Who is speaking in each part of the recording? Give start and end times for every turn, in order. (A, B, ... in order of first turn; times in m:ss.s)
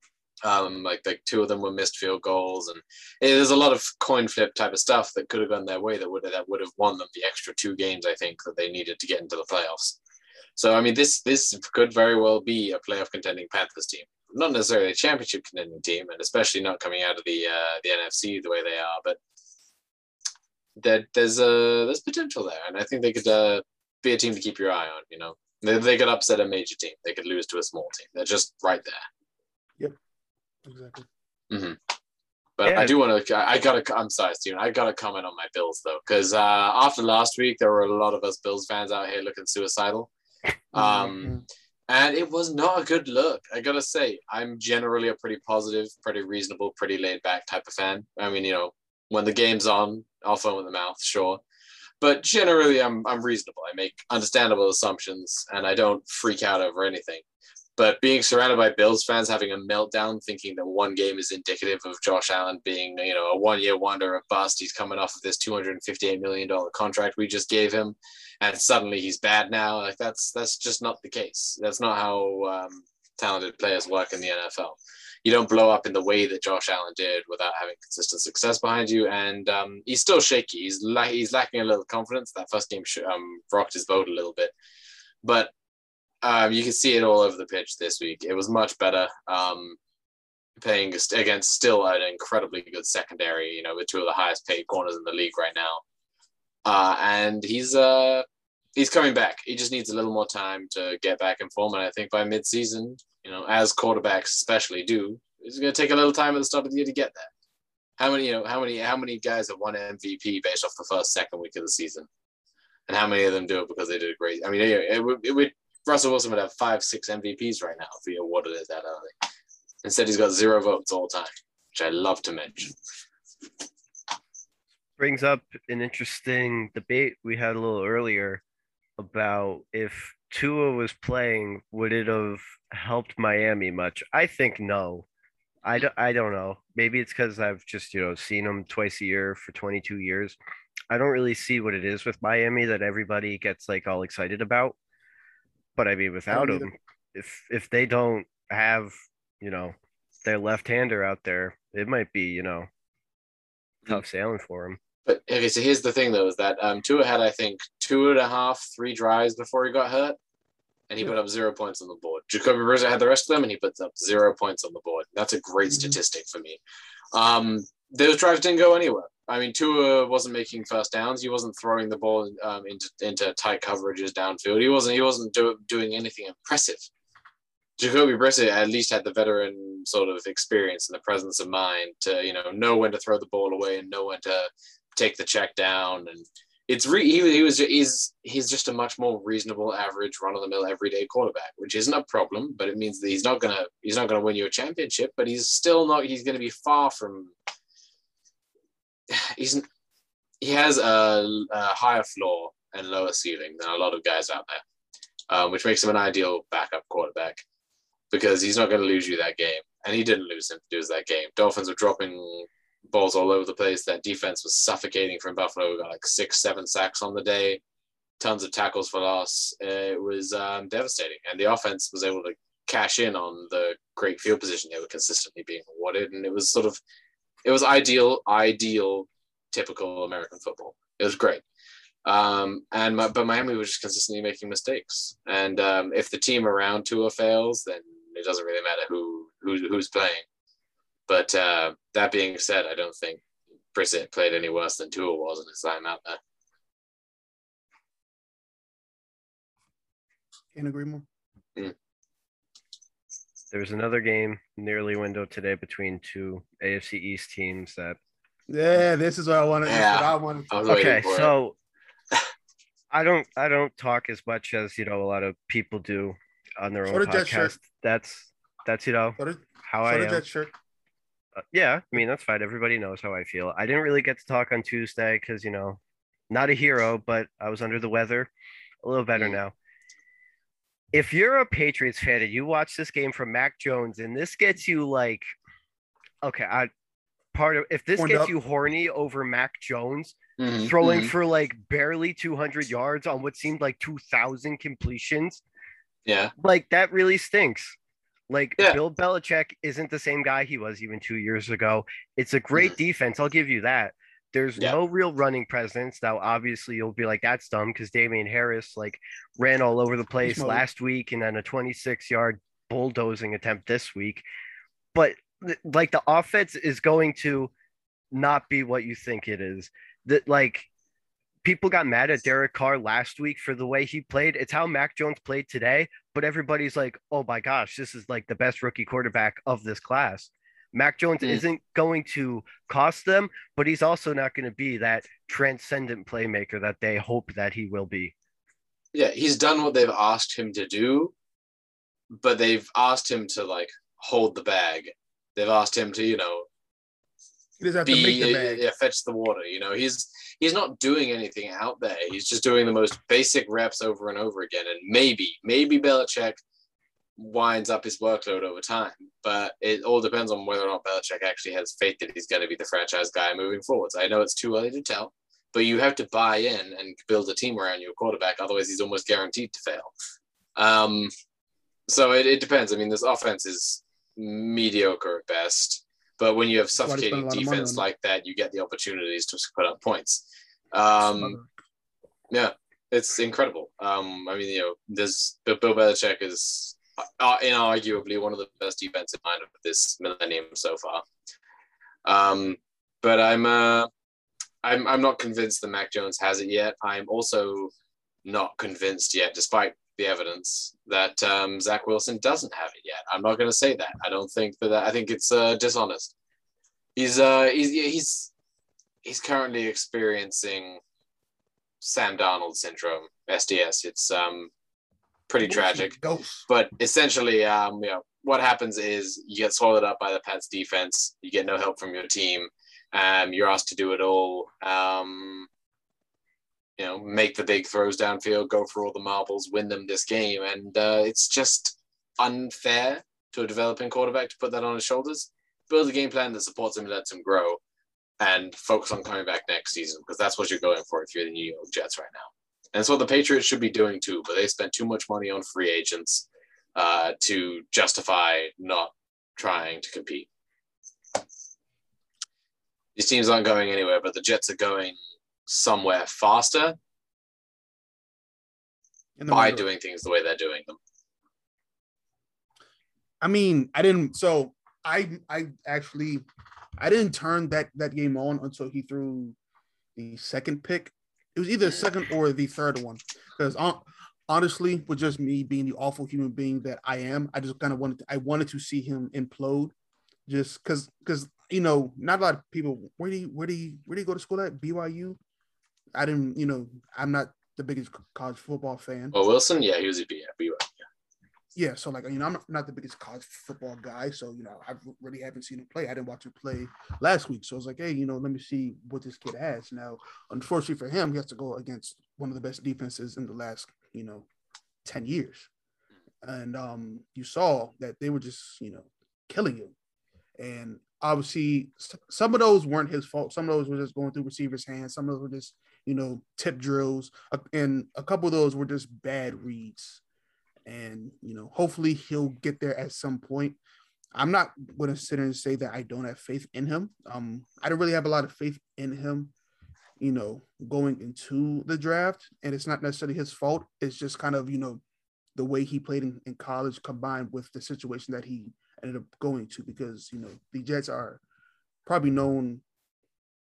0:00.4-0:10.0 A
0:10.6-0:19.2 A
0:20.8-0:29.0 A
0:30.6-0:31.1 B
0:31.5-0:31.8 A
0:32.6-0:40.1 A
0:32.6-0:32.9 C
0:40.7-0:41.4 A
0:40.7-0:41.4 B
0:41.9-0:51.4 A
0:52.0-0:57.2 A
0:57.8-1:24.5 A
1:25.2-1:25.5 A
1:26.2-1:29.8 A
1:30.6-1:35.8 A
1:36.6-1:47.3 A
1:48.0-1:52.1 A
1:52.9-1:59.1 A
1:59.8-2:02.8 A
2:05.0-2:08.4 C
2:09.0-2:15.0 C
2:15.6-2:20.4 C
2:20.9-2:24.8 C
2:25.8-2:32.7 C
2:26.3-2:26.7 B
2:33.9-2:34.8 C
2:35.0-2:40.2 A
2:40.9-2:46.6 A
2:45.7-2:46.0 B
2:47.1-2:56.9 A
2:57.8-3:17.3 A
3:19.1-3:19.6 A
3:20.4-3:24.6 A
3:25.3-3:27.4 A
3:28.1-3:37.6 A
3:38.2-3:46.8 A
3:47.4-3:51.4 A
3:52.0-4:00.2 A
4:01.1-4:03.2 A
4:03.7-4:06.2 A
4:10.5-4:11.0 B
4:13.5-4:18.0 C
4:18.5-4:20.9 B
4:19.7-4:21.3 A
4:20.7-4:21.6 C
4:22.9-4:30.2 C
4:26.9-4:27.6 B
4:29.2-4:30.5 B
4:31.5-4:38.3 C
4:38.8-4:39.5 C
4:40.9-4:45.3 C
4:46.2-4:46.7 C
4:47.3-4:55.4 C
4:48.0-4:48.3 B
4:50.4-4:51.1 A
4:56.0-4:56.3 A
4:56.4-4:57.8 C
4:58.3-5:14.2 C
5:10.2-5:10.6 B
5:14.9-5:17.5 C
5:18.1-5:20.7 C
5:21.4-5:38.1 C
5:38.9-5:41.1 A
5:42.1-5:46.4 A
5:47.6-5:48.6 B
5:47.8-5:56.4 A
5:57.2-6:09.9 A
6:10.6-6:11.1 A
6:11.9-6:21.4 A
6:16.7-6:17.8 B
6:21.0-6:21.5 B
6:22.3-6:31.0 A
6:32.0-6:33.9 A
6:34.6-6:37.7 A
6:38.2-6:46.1 A
6:47.0-6:48.3 A
6:49.0-6:50.8 A
6:51.8-6:54.5 A
6:55.3-6:55.9 A
6:55.4-6:56.5 B
6:56.5-7:05.5 A
7:06.8-7:17.6 A
7:18.2-7:30.3 A
7:33.0-7:34.9 A
7:35.5-7:36.8 A
7:39.2-7:39.7 B
7:39.3-7:40.8 A
7:43.2-7:46.2 B
7:46.8-7:49.4 B
7:50.0-7:59.7 B
8:00.3-8:05.2 B
8:05.9-8:09.1 B
8:09.1-8:10.8 A
8:11.5-8:24.3 B
8:24.8-8:25.5 B
8:26.2-8:29.7 B
8:30.4-8:40.0 B
8:40.6-8:43.6 B
8:44.1-8:49.3 B
8:50.0-8:54.8 B
8:55.4-9:01.2 B
9:01.8-9:02.6 B